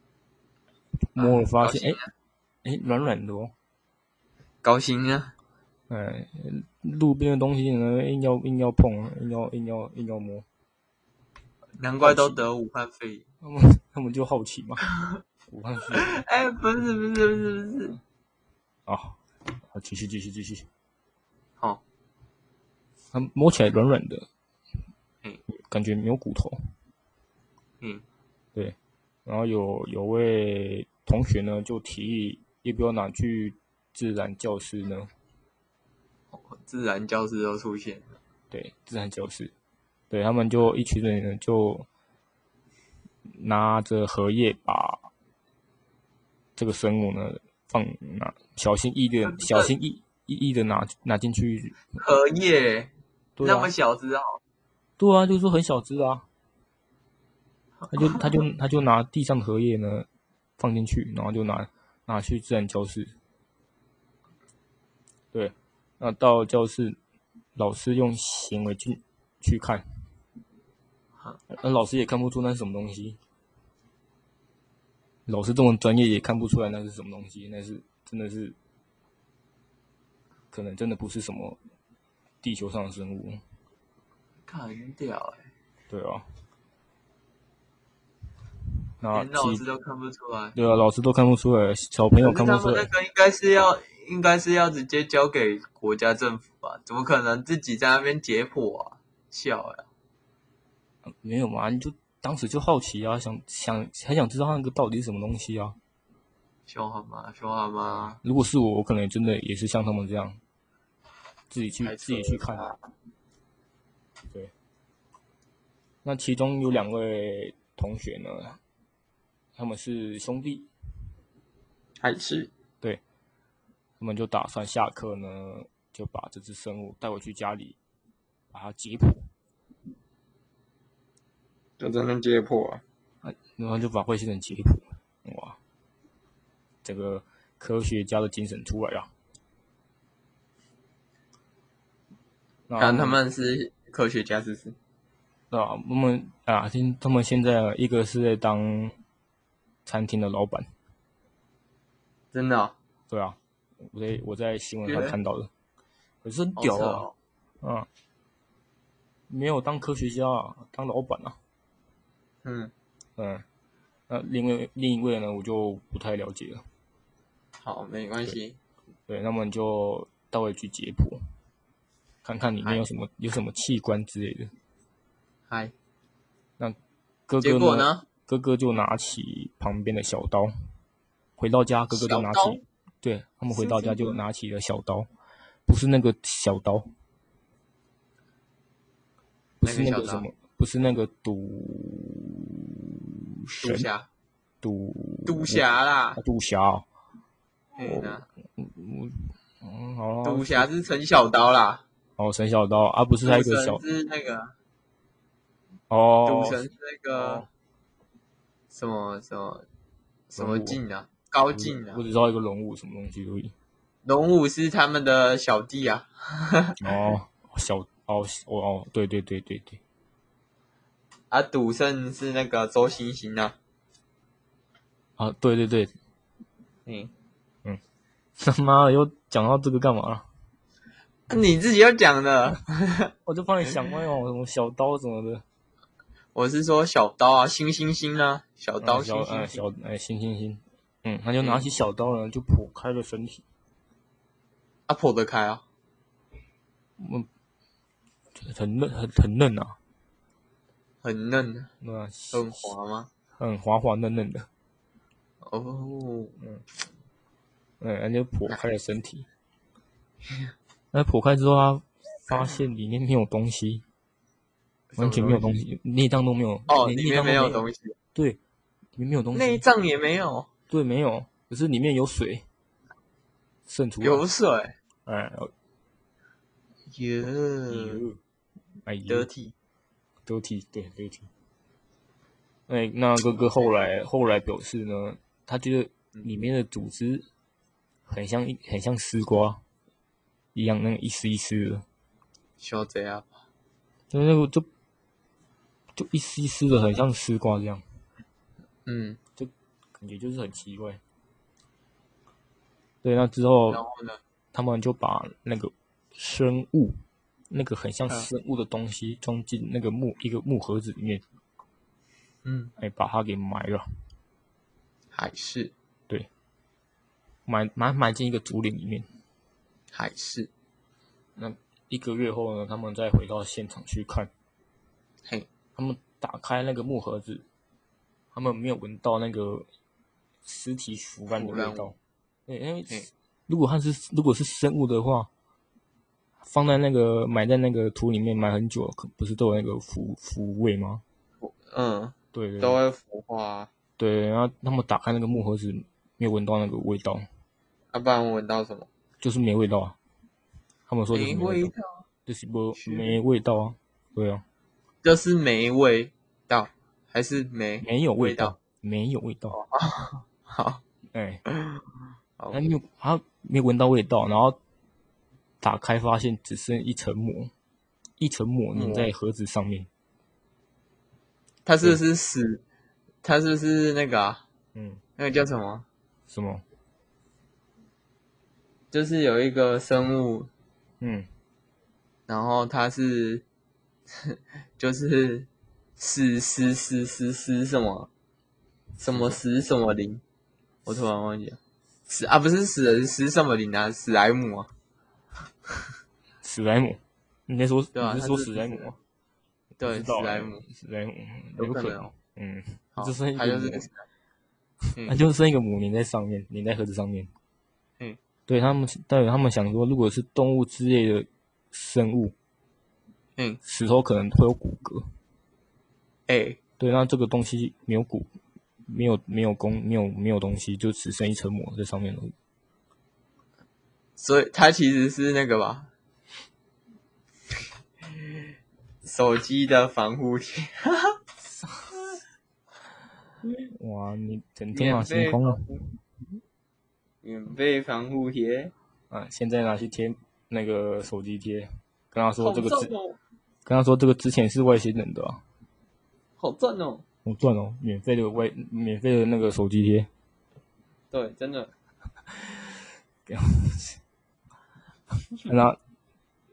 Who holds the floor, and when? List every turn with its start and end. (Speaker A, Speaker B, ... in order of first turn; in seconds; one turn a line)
Speaker A: 1.1-2.0
Speaker B: 1.2-2.1
Speaker A: 2.6-3.5
Speaker B: 4.6-5.3
Speaker A: 5.9-10.4
Speaker B: 11.8-13.2
Speaker A: 12.0-12.4
Speaker A: 13.4-14.9
Speaker A: 15.5-16.2
Speaker B: 16.0-18.0
Speaker A: 18.9-19.2
Speaker A: 19.7-20.7
Speaker A: 23.1-24.3
Speaker A: 25.5-26.6
Speaker A: 28.6-35.1
Speaker B: 36.3-38.1
Speaker A: 38.5-39.5
Speaker A: 40.1-41.9
Speaker A: 43.3-45.1
Speaker A: 46.6-52.0
Speaker B: 49.3-49.7
Speaker B: 52.0-54.4
Speaker A: 53.4-53.7
Speaker A: 55.0-56.2
Speaker A: 57.9-60.1
Speaker A: 60.6-63.1
Speaker A: 65.3-67.0
Speaker A: 67.6-69.8
Speaker A: 71.5-73.2
Speaker A: 75.3-78.6
Speaker A: 80.5-81.6
Speaker A: 82.4-83.4
Speaker B: 84.5-85.4
Speaker A: 85.9-86.2
Speaker A: 89.0-89.6
Speaker B: 89.1-90.6
Speaker A: 90.5-92.9
Speaker B: 92.2-99.8
Speaker A: 101.2-105.8
Speaker B: 106.7-108.2
Speaker A: 108.2-110.4
Speaker A: 111.5-112.7
Speaker B: 111.8-112.8
Speaker A: 116.0-118.6
Speaker A: 119.6-120.7
Speaker B: 122.0-122.5
Speaker A: 124.0-127.8
Speaker A: 128.5-129.3
Speaker B: 131.8-132.8
Speaker A: 133.2-135.6
Speaker A: 136.8-139.1
Speaker A: 142.7-143.2
Speaker B: 142.8-144.8
Speaker A: 145.5-149.0
Speaker A: 149.9-150.7
Speaker B: 152.3-152.8
Speaker A: 153.1-155.5
Speaker B: 154.8-155.2
Speaker A: 156.2-157.1
Speaker B: 156.6-157.1
Speaker A: 157.6-157.9
Speaker A: 159.3-161.4
Speaker B: 162.4-162.7
Speaker A: 163.2-163.4
Speaker A: 164.1-166.6
Speaker B: 167.6-168.6
Speaker A: 169.1-171.2
Speaker A: 172.2-174.5
Speaker A: 176.6-180.5
Speaker B: 177.4-178.1
Speaker A: 181.4-185.1
Speaker B: 181.9-182.6
Speaker B: 183.5-184.2
Speaker A: 185.7-186.9
Speaker A: 189.6-193.9
Speaker B: 189.6-190.3
Speaker B: 193.6-194.1
Speaker A: 194.6-196.9
Speaker B: 195.3-196.2
Speaker B: 197.8-198.2
Speaker A: 197.8-200.7
Speaker B: 200.2-201.8
Speaker A: 202.2-203.8
Speaker B: 203.2-204.5
Speaker A: 205.9-207.5
Speaker B: 206.2-207.5
Speaker B: 208.7-209.7
Speaker B: 210.3-212.0
Speaker A: 210.3-210.8
Speaker A: 211.5-213.5
Speaker B: 214.1-216.8
Speaker A: 216.8-219.8
Speaker B: 221.3-223.6
Speaker A: 225.2-225.9
Speaker B: 226.9-227.1
Speaker A: 228.4-230.3
Speaker B: 231.3-233.1
Speaker A: 233.2-235.4
Speaker B: 236.3-239.6
Speaker A: 238.8-243.4
Speaker B: 241.4-241.7
Speaker B: 244.9-245.6
Speaker A: 247.0-247.3
Speaker A: 248.4-249.8
Speaker B: 251.0-251.7
Speaker A: 251.8-252.7
Speaker B: 252.3-253.1
Speaker A: 253.4-254.5
Speaker B: 255.4-256.4
Speaker A: 257.8-259.3
Speaker A: 260.9-263.8
Speaker B: 262.3-262.6
Speaker A: 264.9-267.6
Speaker B: 265.0-265.5
Speaker B: 266.7-267.9
Speaker A: 269.0-269.6
Speaker B: 269.3-270.5
Speaker A: 270.7-272.4
Speaker A: 273.7-274.2
Speaker B: 274.0-274.7
Speaker A: 275.1-275.5
Speaker B: 276.9-278.0
Speaker A: 277.7-278.2
Speaker A: 278.9-279.3
Speaker B: 279.1-279.5
Speaker A: 280.3-281.3
Speaker A: 282.7-287.3
Speaker A: 288.1-289.6
Speaker A: 290.5-291.8
Speaker B: 292.6-293.3
Speaker A: 294.1-294.7
Speaker A: 296.0-297.8
Speaker B: 298.9-299.2
Speaker A: 299.4-301.0
Speaker A: 303.0-303.8
Speaker B: 303.7-304.2
Speaker A: 304.5-307.0
Speaker A: 307.5-311.2
Speaker B: 312.4-312.7
Speaker A: 312.8-313.9
Speaker B: 315.1-315.7
Speaker A: 317.5-319.1
Speaker B: 319.9-320.5
Speaker A: 321.4-324.3
Speaker A: 325.8-327.4
Speaker A: 328.3-329.7
Speaker A: 330.4-332.0
Speaker B: 331.3-331.9
Speaker A: 332.5-335.3
Speaker A: 336.4-341.0
Speaker B: 341.4-343.7
Speaker A: 342.3-342.8
Speaker A: 344.0-347.3
Speaker B: 347.9-348.9
Speaker A: 349.2-350.0
Speaker A: 350.9-351.7
Speaker B: 351.1-352.0
Speaker A: 352.3-354.4
Speaker B: 352.8-353.2
Speaker B: 355.0-358.6
Speaker A: 357.8-359.6
Speaker B: 359.5-360.8
Speaker A: 361.1-361.4
Speaker B: 361.5-361.8
Speaker A: 362.5-364.6
Speaker A: 365.6-367.5
Speaker A: 368.2-369.9
Speaker B: 368.7-369.1
Speaker B: 371.7-372.6
Speaker B: 373.2-374.4
Speaker A: 374.8-375.0
Speaker B: 375.2-375.9
Speaker A: 376.3-376.6
Speaker B: 378.9-380.5
Speaker A: 381.0-381.3
Speaker B: 382.3-383.4
Speaker B: 384.2-388.1
Speaker A: 389.0-389.4
Speaker B: 389.0-390.2
Speaker B: 390.9-394.7
Speaker A: 396.4-398.9
Speaker B: 397.9-398.9
Speaker B: 399.8-400.6
Speaker A: 399.8-403.9
Speaker B: 401.6-402.1
Speaker B: 402.9-404.0
Speaker A: 405.0-407.3
Speaker A: 408.5-412.4
Speaker A: 413.6-415.1
Speaker B: 416.3-416.6
Speaker A: 416.8-418.3
Speaker A: 418.9-422.3
Speaker B: 424.2-425.9
Speaker B: 429.0-431.2
Speaker A: 433.7-435.8
Speaker B: 434.7-435.8
Speaker B: 437.2-438.7
Speaker A: 439.1-442.9
Speaker B: 442.4-443.2
Speaker A: 443.6-445.4
Speaker B: 446.4-447.0
Speaker A: 447.2-450.1
Speaker B: 451.1-451.7
Speaker A: 452.4-452.8
Speaker A: 453.3-454.0
Speaker A: 455.4-455.8